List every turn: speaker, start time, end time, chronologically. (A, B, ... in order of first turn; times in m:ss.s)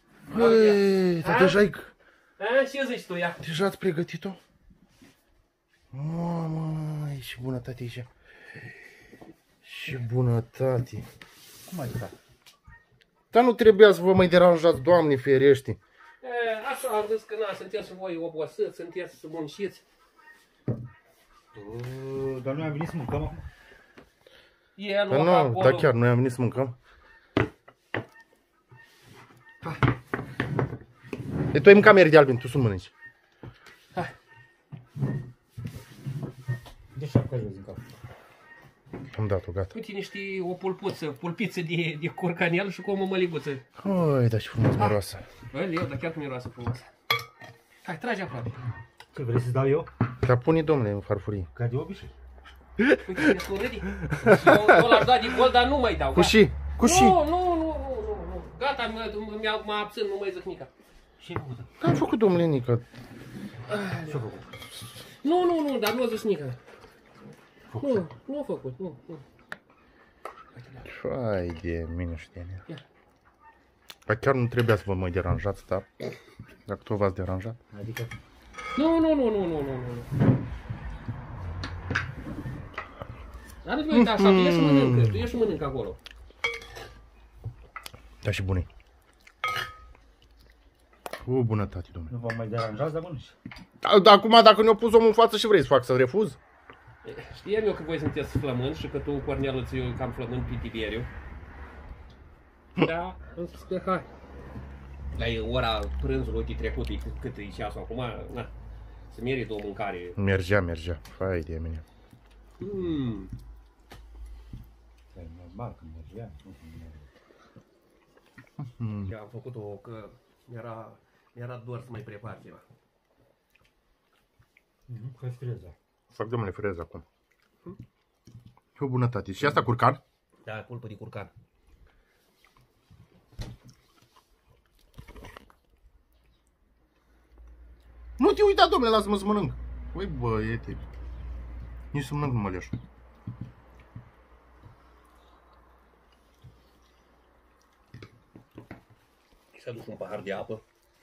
0:00.3-0:01.9 A
0:00.3-0:01.6 B
0:02.4-0:03.4 B
0:03.4-0:04.4 A
0:05.9-0:08.1 A
0:09.6-0:11.0 A
0:11.7-0:12.1 C
0:13.3-0:15.8 A
0:16.2-0:19.8 B
0:21.5-0:23.4 C
0:24.8-0:25.9 B
0:25.1-0:26.8 A
0:31.5-0:32.9 A
0:36.9-0:37.9 C
0:39.1-0:39.7 A
0:39.7-0:43.7 B
0:43.8-0:45.2 A
0:45.5-0:46.9 B
0:47.8-0:48.6 B
0:49.1-0:49.9 C
0:50.2-0:51.5 A
0:51.6-0:52.1 C
0:52.8-0:53.1 A
0:53.0-1:00.7 B
0:54.2-0:54.8 A
0:56.1-0:57.2 A
1:01.2-1:01.7 C
1:01.8-1:02.8 A
1:03.7-1:04.2 B
1:04.1-1:04.6 C
1:05.2-1:06.6 B
1:07.7-1:08.0 A
1:07.8-1:09.2 B
1:10.6-1:10.9 B
1:10.8-1:12.6 A
1:14.1-1:15.9 A
1:16.7-1:17.6 A
1:17.7-1:18.1 C
1:18.8-1:20.1 B
1:23.6-1:26.0 B
1:23.9-1:25.3 A
1:28.2-1:28.7 A
1:31.2-1:32.1 A
1:32.1-1:33.4 C
1:33.8-1:36.4 A
1:37.0-1:41.1 B
1:42.8-1:44.1 B
1:45.1-1:48.5 B
1:49.1-1:50.2 B
1:50.2-1:51.8 A
1:52.6-1:53.3 B
1:55.1-1:57.0 C
1:58.6-1:59.1 A
1:59.1-2:02.6 B
2:04.9-2:05.7 C
2:06.1-2:07.0 A
2:08.8-2:10.0 A
2:10.4-2:11.3 B
2:18.2-2:20.8 A
2:21.9-2:22.7 A
2:29.5-2:30.6 B